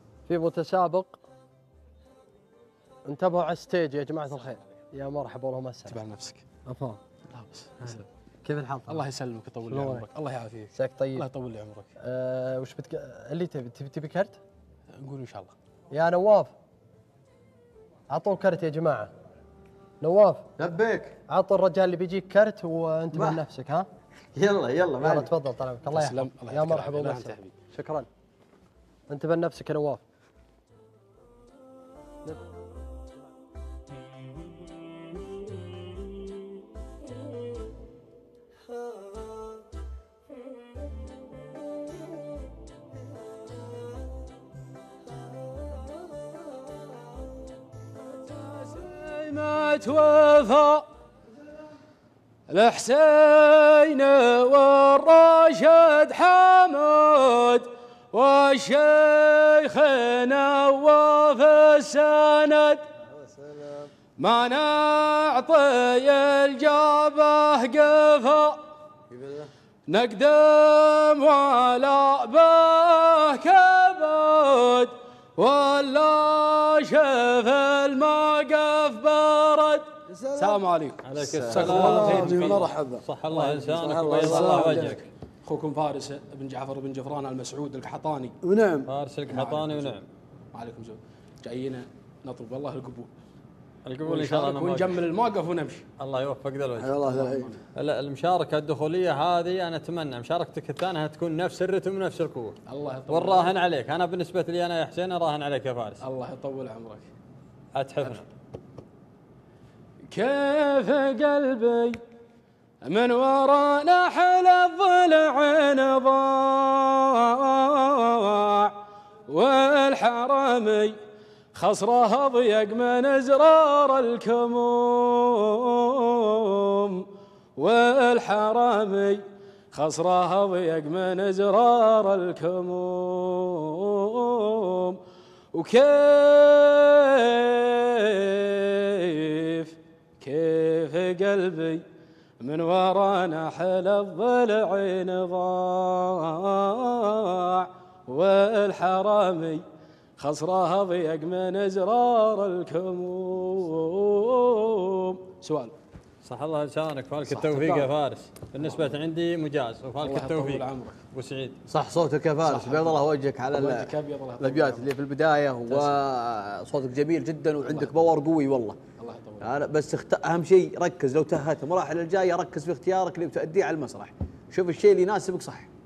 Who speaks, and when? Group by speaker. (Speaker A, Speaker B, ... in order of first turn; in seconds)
Speaker A: 0.3-1.2, 3.1-6.0, 6.7-7.0, 7.8-9.1, 9.7-10.1, 10.7-11.3, 12.0-14.4, 15.9-16.5, 18.1-19.1, 20.0-20.5, 21.3-23.9, 25.0-28.1, 29.1-30.0
Speaker B: 5.9-6.4, 7.3-8.0, 8.9-11.9, 15.0-15.5, 25.9-27.6, 48.2-50.9, 52.5-62.9, 64.2-68.6, 69.9-82.7, 84.2-88.4, 89.3-90.0, 90.5-93.1, 94.0-95.9, 97.0-97.6, 102.7-103.6, 106.0-107.1, 110.1-112.0, 112.8-118.8, 119.3-121.0, 121.5-127.1, 127.6-135.0, 135.5-141.8, 142.4-149.6, 150.2-155.7, 157.3-157.9, 158.6-158.9, 160.0-161.0, 162.4-164.9, 165.7-166.0, 167.6-168.1, 169.0-169.6
Speaker C: 20.6-21.2, 23.1-23.4, 24.3-25.3, 81.2-81.6, 161.7-168.8, 169.4-175.7
Speaker D: 63.2-63.9, 69.1-69.5, 80.1-80.6, 81.5-85.0, 88.4-88.9, 96.8-97.5
Speaker E: 81.0-85.0, 88.9-90.1, 93.9-95.0, 96.0-97.0, 97.8-102.6, 103.1-106.0, 107.8-108.3, 156.2-161.6